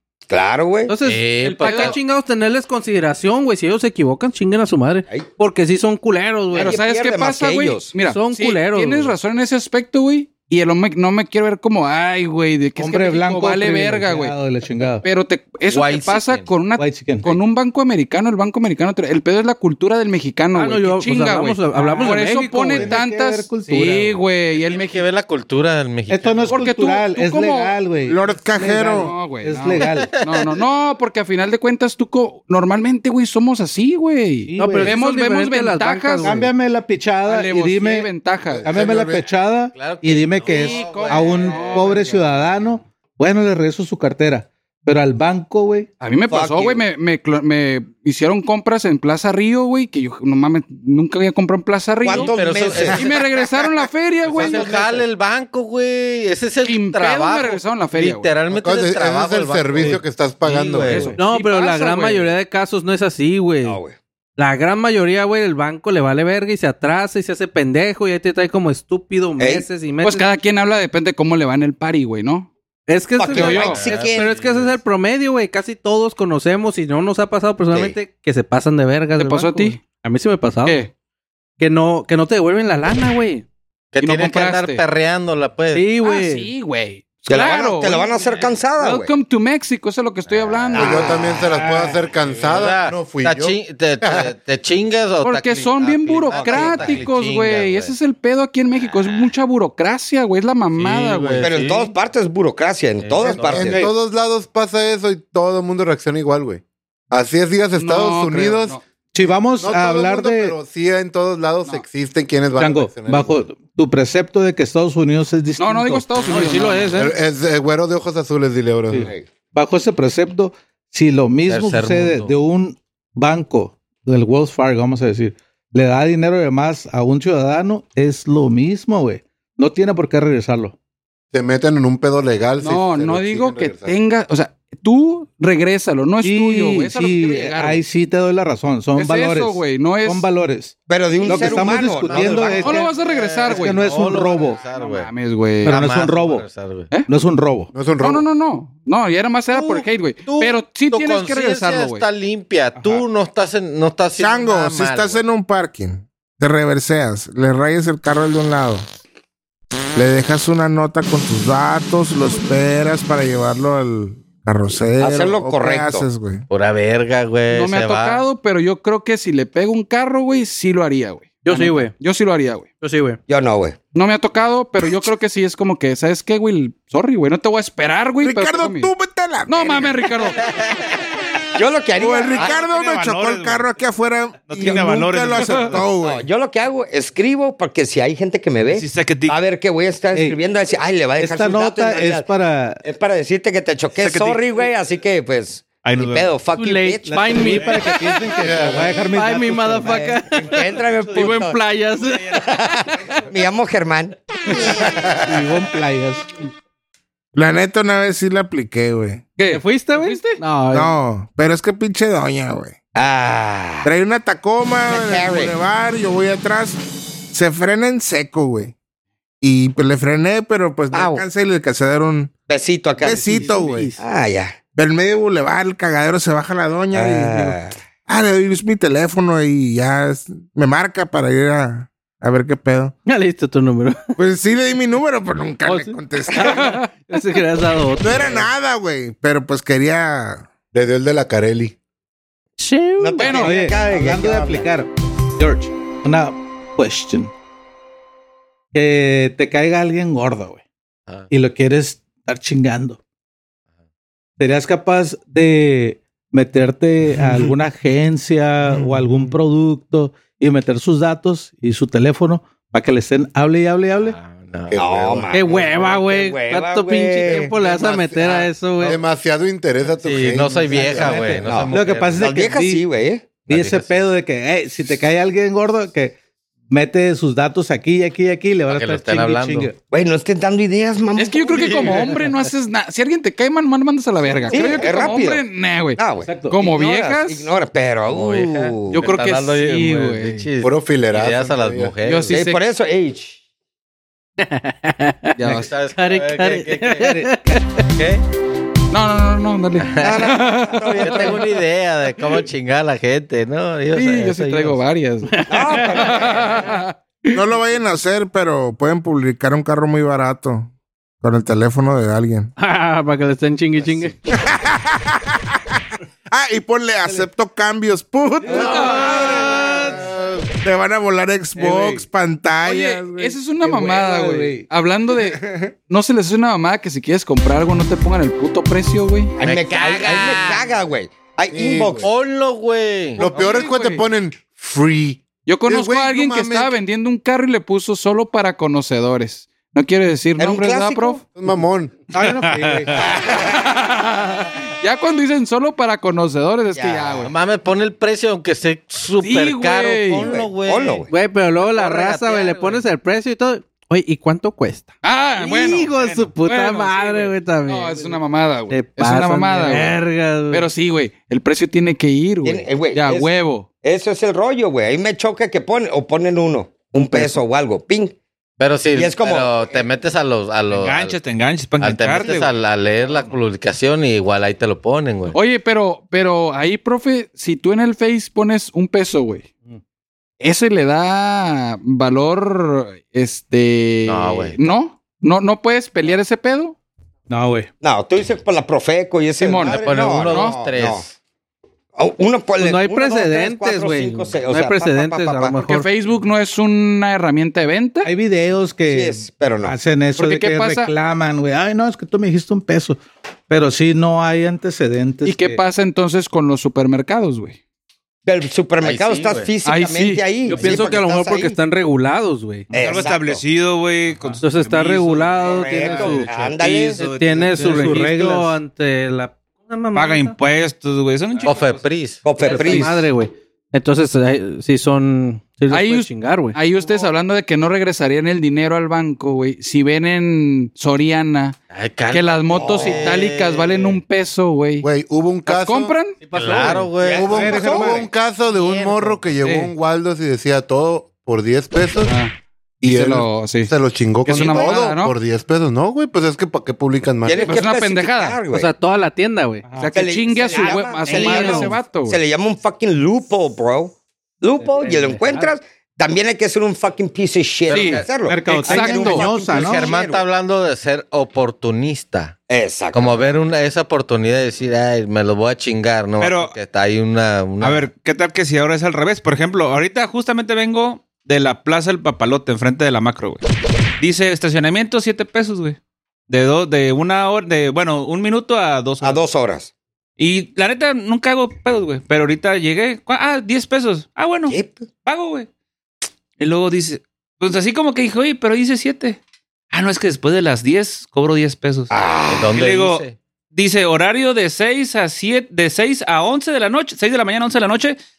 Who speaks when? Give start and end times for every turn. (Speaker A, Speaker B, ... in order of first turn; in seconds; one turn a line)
Speaker A: 0.3-0.9
Speaker B: 0.9-6.8
Speaker C: 1.0-2.0
Speaker D: 1.5-2.0
Speaker A: 6.5-7.9
Speaker D: 6.5-14.3
Speaker B: 8.0-9.1
Speaker E: 12.8-15.0
Speaker D: 15.0-25.0
Speaker C: 15.7-16.5
Speaker E: 16.8-17.3
Speaker B: 20.5-22.9
Speaker E: 21.7-24.2
Speaker C: 24.5-26.6
Speaker E: 26.1-30.1
Speaker D: 26.5-27.8
Speaker F: 28.0-29.1
Speaker D: 28.9-36.4
Speaker C: 29.8-30.6
Speaker E: 34.5-35.0
Speaker B: 34.6-36.5
Speaker E: 36.2-38.1
Speaker D: 37.2-38.6
Speaker E: 38.6-45.9
Speaker G: 38.6-39.2
Speaker C: 39.7-42.3
Speaker D: 40.5-42.2
Speaker D: 46.0-54.7
Speaker A: 46.3-46.8
Speaker A: 52.0-53.1
Speaker C: 52.1-53.3
Speaker C: 54.2-61.2
Speaker A: 54.3-55.0
Speaker D: 56.6-58.3
Speaker G: 58.5-61.1
Speaker D: 60.9-62.3
Speaker B: 61.2-63.8
Speaker A: 63.6-64.0
Speaker B: 64.4-70.3
Speaker A: 69.4-69.7
Speaker D: 70.0-72.5
Speaker B: 72.9-80.8
Speaker A: 73.2-74.3
Speaker D: 73.3-73.8
Speaker C: 73.3-74.8
Speaker A: 77.7-78.0
Speaker D: 79.2-79.8
Speaker D: 80.6-80.9
Speaker B: 81.6-83.5
Speaker C: 83.9-85.8
Speaker D: 84.0-84.8
Speaker B: 85.7-86.5
Speaker D: 86.0-88.1
Speaker A: 87.3-89.1
Speaker D: 88.8-91.1
Speaker C: 90.3-91.0
Speaker A: 90.7-91.6
Speaker G: 90.7-94.3
Speaker C: 92.2-97.9
Speaker D: 95.2-101.5
Speaker A: 96.3-97.0
Speaker C: 100.8-101.9
Speaker A: 101.4-103.9
Speaker C: 103.0-103.8
Speaker G: 103.4-108.8
Speaker D: 107.8-108.8
Speaker E: 109.1-110.5
Speaker G: 109.6-113.4
Speaker E: 112.6-116.7
Speaker D: 115.6-116.9
Speaker B: 116.3-117.1
Speaker G: 116.9-119.1
Speaker E: 118.9-130.7
Speaker A: 119.0-119.3
Speaker C: 121.5-122.3
Speaker G: 131.3-133.9
Speaker D: 132.6-137.8
Speaker E: 136.2-142.9
Speaker D: 138.9-140.3
Speaker A: 140.9-142.9
Speaker C: 142.1-145.1
Speaker D: 142.6-143.9
Speaker E: 143.4-144.6
Speaker D: 144.6-145.9
Speaker E: 145.6-146.5
Speaker C: 145.6-146.9
Speaker E: 147.1-147.7
Speaker G: 147.7-148.2
Speaker D: 148.0-152.0
Speaker C: 149.5-155.2
Speaker E: 152.8-153.0
Speaker F: 154.2-158.8
Speaker F: 159.9-166.4
Speaker A: 165.0-166.1
Speaker C: 166.5-168.2
Speaker D: 167.5-172.7
Speaker B: 171.4-171.9
Speaker B: 172.8-173.2
Speaker A: 173.3-173.8
Speaker D: 173.9-178.9
Speaker F: 178.2-180.1
Speaker D: 179.4-180.4
Speaker A: 181.5-182.6
Speaker F: 182.0-186.2
Speaker H: 182.3-183.7
Speaker H: 184.5-185.8
Speaker A: 184.6-185.0
Speaker A: 186.0-192.3
Speaker H: 188.7-189.4
Speaker E: 191.2-192.8
Speaker A: 192.8-197.8
Speaker H: 194.0-194.6
Speaker H: 195.8-196.4
Speaker B: 196.5-203.2
Speaker E: 197.1-200.0
Speaker G: 198.4-198.9
Speaker A: 199.8-201.6
Speaker D: 201.2-201.5
Speaker A: 203.2-205.1
Speaker E: 205.2-206.3
Speaker F: 207.3-209.2
Speaker D: 209.4-210.4
Speaker B: 209.4-210.9
Speaker F: 210.7-212.8
Speaker A: 212.9-213.9
Speaker F: 213.8-218.7
Speaker A: 214.9-215.5
Speaker F: 219.4-222.3
Speaker A: 220.9-221.2
Speaker A: 222.5-223.4
Speaker F: 223.0-223.9
Speaker B: 223.1-223.8
Speaker E: 223.3-223.9
Speaker A: 224.0-224.6
Speaker F: 224.7-232.9
Speaker A: 226.9-227.8
Speaker B: 233.1-234.1
Speaker F: 234.2-236.8
Speaker B: 235.6-238.5
Speaker D: 236.4-236.9
Speaker F: 238.0-240.5
Speaker G: 240.7-241.7
Speaker B: 242.6-243.4
Speaker A: 243.0-244.7
Speaker D: 243.2-243.5
Speaker E: 243.3-247.3
Speaker E: 248.7-250.6
Speaker E: 251.3-253.0
Speaker E: 254.4-264.1
Speaker C: 264.0-265.3
Speaker A: 264.7-268.5
Speaker B: 265.3-269.0
Speaker G: 268.8-271.4
Speaker C: 270.0-272.3
Speaker E: 270.7-272.8
Speaker A: 271.4-273.3
Speaker E: 273.4-276.1
Speaker C: 273.5-274.1
Speaker E: 276.7-279.8
Speaker C: 278.7-279.7
Speaker A: 279.9-282.1
Speaker D: 281.1-287.5
Speaker E: 281.7-282.0
Speaker A: 284.5-285.4
Speaker A: 286.0-289.0
Speaker E: 286.2-286.6
Speaker C: 288.1-292.4
Speaker D: 288.9-290.4
Speaker G: 290.6-291.9
Speaker D: 292.0-292.6
Speaker A: 292.3-293.4
Speaker B: 294.4-295.4
Speaker D: 295.4-295.7
Speaker C: 295.4-297.2
Speaker B: 295.9-297.6
Speaker C: 298.0-298.2
Speaker D: 298.9-301.3
Speaker C: 299.8-300.4
Speaker A: 300.0-301.5
Speaker C: 301.0-304.8
Speaker D: 303.9-306.9
Speaker B: 305.3-306.3
Speaker A: 305.5-306.7
Speaker F: 307.3-310.7
Speaker F: 311.2-312.5
Speaker B: 312.6-314.2
Speaker F: 314.3-315.4
Speaker F: 316.3-323.4
Speaker E: 318.4-320.4
Speaker D: 318.5-319.3
Speaker E: 321.6-322.0
Speaker D: 322.6-329.4
Speaker E: 323.6-324.7
Speaker F: 325.2-325.7
Speaker A: 329.4-332.1
Speaker C: 329.4-330.1
Speaker G: 331.5-332.1
Speaker C: 332.0-333.2
Speaker G: 333.2-336.8
Speaker E: 333.2-334.0
Speaker D: 335.4-341.2
Speaker A: 340.4-341.2
Speaker G: 341.4-342.0
Speaker E: 342.1-343.1
Speaker A: 343.0-343.5
Speaker D: 343.2-347.3
Speaker A: 346.7-347.3
Speaker C: 347.2-351.1
Speaker D: 349.2-350.3
Speaker A: 350.1-351.1
Speaker B: 351.1-360.7
Speaker C: 351.6-352.8
Speaker D: 355.0-360.0
Speaker D: 360.5-363.7
Speaker A: 362.4-363.3
Speaker A: 363.8-368.1
Speaker C: 368.6-371.2
Speaker A: 368.9-369.9
Speaker H: 370.7-372.5
Speaker C: 371.8-375.4
Speaker D: 375.3-379.5
Speaker D: 380.4-386.7
Speaker C: 384.1-384.7
Speaker E: 387.3-387.7
Speaker A: 387.8-391.0
Speaker D: 389.4-390.6
Speaker C: 389.6-391.1
Speaker A: 391.9-395.6
Speaker B: 392.6-395.9
Speaker D: 395.6-398.1
Speaker E: 398.0-405.6
Speaker A: 398.9-399.8
Speaker D: 400.1-400.9
Speaker D: 405.2-407.6
Speaker A: 408.2-411.6
Speaker C: 408.8-409.5
Speaker D: 409.6-410.2
Speaker B: 410.4-412.7
Speaker A: 412.7-413.4
Speaker H: 412.7-418.0
Speaker B: 414.4-416.3
Speaker A: 415.4-417.0
Speaker B: 416.9-420.4
Speaker E: 417.5-418.6
Speaker H: 419.9-421.9
Speaker C: 421.4-422.8
Speaker A: 422.2-423.1
Speaker B: 422.4-426.6
Speaker D: 425.7-431.6
Speaker C: 431.7-434.0
Speaker D: 432.1-434.9
Speaker A: 432.5-433.2
Speaker G: 434.8-435.9
Speaker D: 435.4-436.8
Speaker C: 436.2-437.8
Speaker A: 436.4-438.0
Speaker G: 437.1-442.1
Speaker E: 437.3-438.0
Speaker C: 438.5-439.2
Speaker D: 439.4-439.7
Speaker D: 442.1-443.7
Speaker G: 442.8-447.6
Speaker D: 444.2-445.1
Speaker A: 444.3-444.8
Speaker A: 447.2-448.7
Speaker D: 447.4-448.4
Speaker B: 448.5-449.7
Speaker E: 449.7-449.9
Speaker D: 449.7-452.2
Speaker A: 449.9-460.2
Speaker B: 450.5-451.8
Speaker B: 454.7-455.5
Speaker D: 457.7-458.0
Speaker E: 458.1-459.9
Speaker H: 458.4-458.8
Speaker D: 458.6-459.3
Speaker C: 459.4-462.3
Speaker A: 462.5-463.2
Speaker C: 462.9-467.9
Speaker H: 466.2-466.5
Speaker H: 467.6-473.4
Speaker H: 474.0-475.8
Speaker H: 476.3-479.2
Speaker A: 479.0-479.7
Speaker H: 480.2-485.5
Speaker A: 484.5-484.9
Speaker H: 486.4-489.2
Speaker H: 489.7-491.9
Speaker A: 491.9-492.6
Speaker C: 492.3-493.1
Speaker H: 492.5-498.0